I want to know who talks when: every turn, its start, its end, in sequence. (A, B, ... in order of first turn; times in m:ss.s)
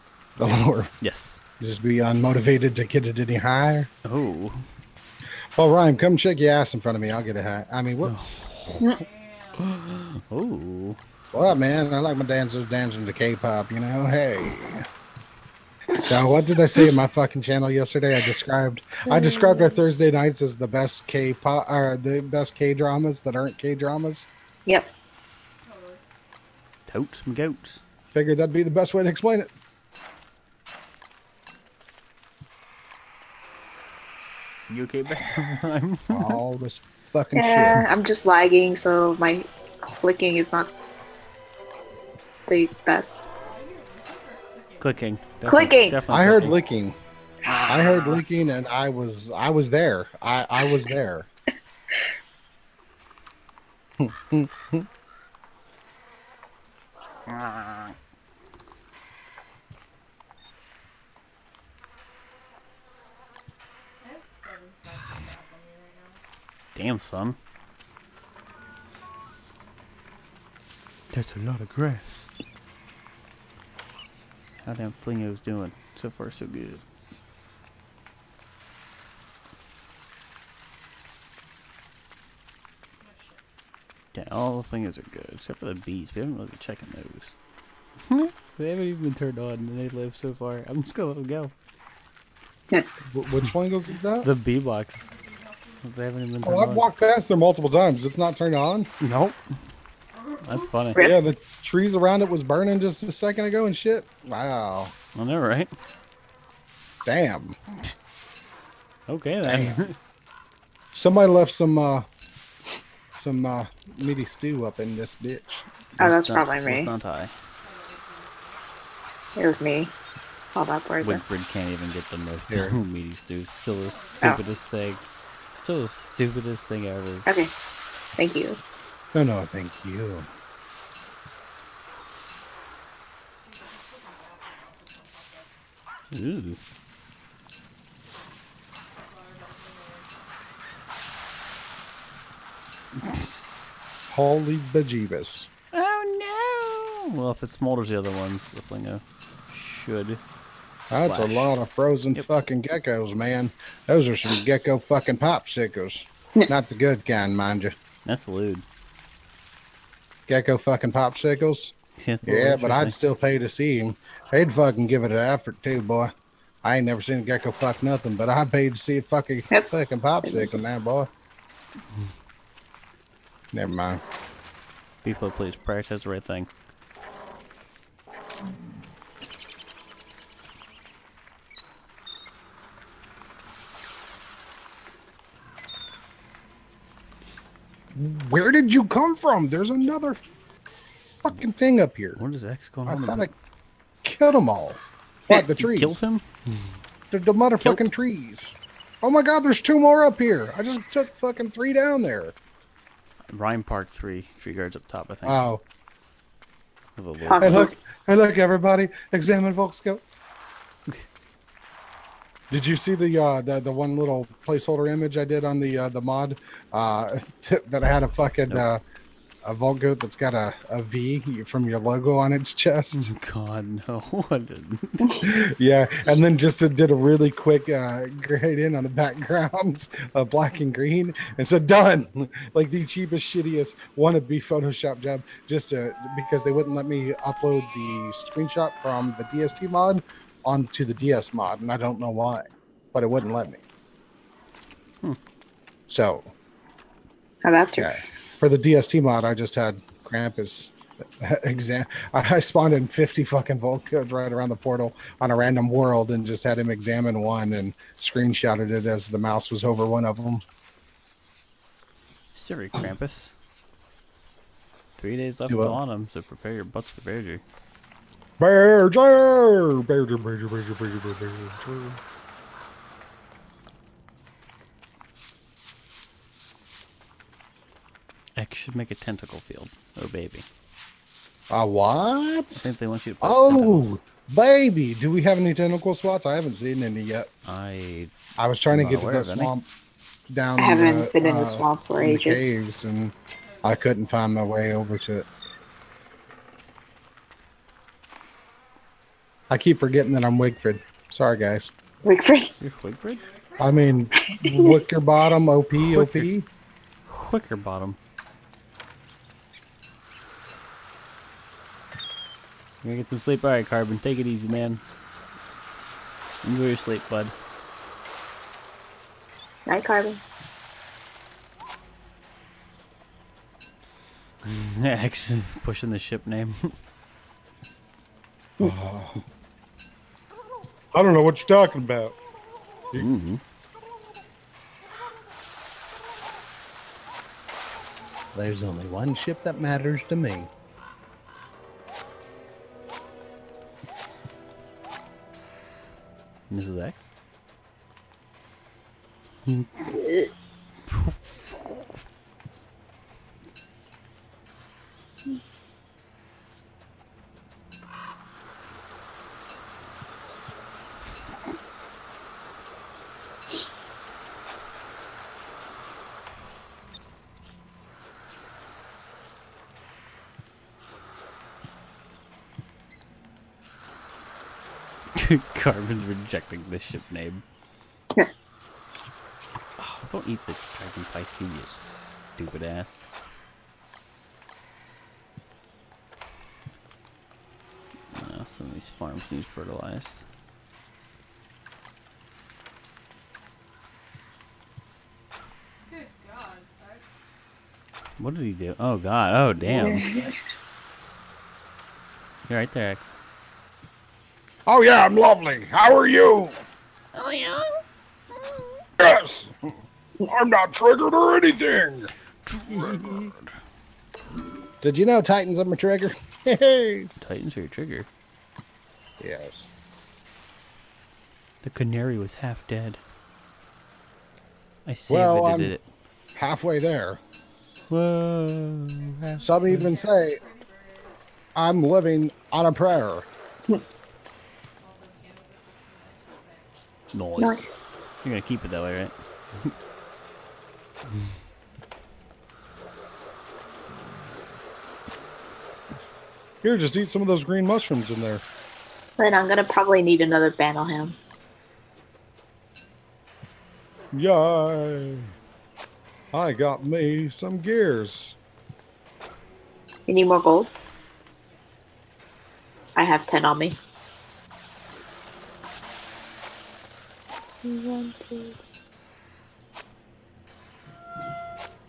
0:00.4-0:00.9 A
0:01.0-0:01.4 B
0:01.6-0:03.9 A
0:04.0-0:04.6 B
0:05.6-0:08.5 A
0:08.0-0:09.0 B
0:08.8-0:09.8 C
0:09.6-0:11.0 B
0:11.3-0:14.9 A
0:16.1-0:24.3 A
0:19.1-0:19.8 D
0:24.6-0:24.9 D
0:25.6-0:26.0 C
0:26.9-0:27.8 B
0:28.1-0:29.5 A
0:34.7-0:36.4 B
0:36.1-0:37.8 A
0:37.3-0:40.7 D
0:42.5-0:43.2 D
0:43.3-0:45.0 C
0:44.8-0:46.6 B
0:45.4-0:46.0 D
0:46.1-0:47.0 A
0:47.5-0:48.2 B
0:47.7-0:51.3 A
0:54.0-0:54.9 A
0:57.3-0:57.8 B
1:04.0-1:06.2 C
1:06.7-1:07.4 B
1:11.1-1:12.3 B
1:14.6-1:16.8 B
1:23.0-1:23.4 C
1:24.1-1:27.3 B
1:28.0-1:31.5 B
1:33.1-1:34.3 A
1:34.2-1:35.1 B
1:35.0-1:35.9 C
1:35.8-1:36.9 B
1:36.4-1:38.9 A
1:39.0-1:39.4 B
1:40.1-1:40.8 C
1:40.4-1:41.0 B
1:41.0-1:44.9 A
1:45.1-1:45.7 B
1:47.0-1:47.5 A
1:49.1-1:49.9 B
1:49.4-1:49.8 A
1:50.9-1:52.1 A
1:53.2-1:55.6 A
1:56.0-1:56.9 D
1:56.0-1:57.3 B
1:57.6-1:58.8 C
1:59.4-1:59.9 D
2:00.5-2:01.2 D
2:01.0-2:05.0 B
2:02.5-2:02.8 A
2:03.7-2:05.0 C
2:05.5-2:07.3 B
2:07.2-2:07.5 D
2:08.2-2:08.6 D
2:09.1-2:10.3 A
2:13.4-2:15.5 C
2:16.1-2:16.6 B
2:18.9-2:20.3 C
2:23.0-2:23.4 B
2:24.1-2:25.5 A
2:25.7-2:30.2 B
2:30.9-2:37.7 A
2:30.9-2:31.5 B
2:38.0-2:38.6 B
2:40.3-2:41.7 A
2:42.0-2:43.0 B
2:42.2-2:46.1 A
2:46.6-2:51.1 A
2:50.2-2:50.6 D
2:53.5-2:54.0 A
2:55.0-2:56.5 B
3:07.9-3:12.2 A
3:12.2-3:13.3 B
3:12.8-3:13.3 A
3:14.0-3:16.0 A
3:15.6-3:16.3 B
3:17.1-3:22.3 A
3:17.6-3:17.9 B
3:23.3-3:25.4 B
3:25.2-3:25.6 A
3:27.0-3:27.7 B
3:27.2-3:27.7 D
3:27.4-3:30.0 A
3:32.5-3:38.8 A
3:39.4-3:43.1 A
3:42.9-3:45.2 B
3:45.2-4:03.6 A
4:05.9-4:06.3 A
4:07.4-4:07.9 D
4:07.8-4:20.4 A
4:22.3-4:23.3 B
4:25.0-4:27.4 B
4:25.5-4:25.8 A
4:28.4-4:32.0 A
4:38.4-4:40.5 B
4:41.5-4:42.7 A
4:42.6-4:44.0 B
4:43.2-4:47.3 A
4:47.4-4:48.1 B
4:48.4-4:49.6 A
4:48.7-4:49.5 B
4:50.3-4:53.1 A
4:50.6-4:52.5 D
4:53.4-4:54.1 C
4:53.6-4:55.2 A
4:59.5-5:01.7 A
5:02.0-5:02.5 D
5:02.6-5:03.2 B
5:03.1-5:04.0 C
5:03.6-5:06.4 A
5:04.2-5:04.8 D
5:05.8-5:06.3 B
5:07.1-5:08.0 B
5:12.8-5:14.8 B
5:16.4-5:17.3 B
5:19.6-5:20.2 D
5:24.4-5:26.8 B
5:28.6-5:29.2 A
5:30.9-5:32.2 A
5:32.9-5:33.4 B
5:38.3-5:40.5 A
5:46.5-5:47.1 B
5:49.5-5:49.9 B
5:50.0-5:50.3 D
5:50.9-5:51.2 B
6:15.1-6:17.4 B
6:19.8-6:23.0 B
6:28.1-6:30.2 B
6:35.9-6:37.1 C
6:38.2-6:40.2 B
6:39.6-6:40.4 D
6:42.5-6:43.2 B
6:44.6-6:46.6 A
6:47.1-6:47.8 B
6:49.0-6:52.1 A
6:52.5-6:53.5 B
6:52.7-6:53.3 A
6:54.8-6:57.1 A
6:57.2-6:58.1 B
6:59.2-6:59.7 A
7:01.6-7:03.0 B
7:04.8-7:05.8 B
7:05.1-7:05.7 A
7:06.4-7:07.2 A
7:07.9-7:09.8 B
7:09.0-7:11.2 C
7:09.4-7:10.4 A
7:11.5-7:13.2 A
7:14.8-7:16.7 C
7:17.1-7:17.6 B
7:17.4-7:17.9 D
7:18.2-7:19.7 B
7:19.6-7:20.9 C
7:26.6-7:28.4 A
7:29.2-7:31.2 D
7:34.1-7:35.3 A
7:36.3-7:38.4 A
7:40.1-7:40.7 D
7:43.0-7:43.8 D
7:47.6-7:48.6 D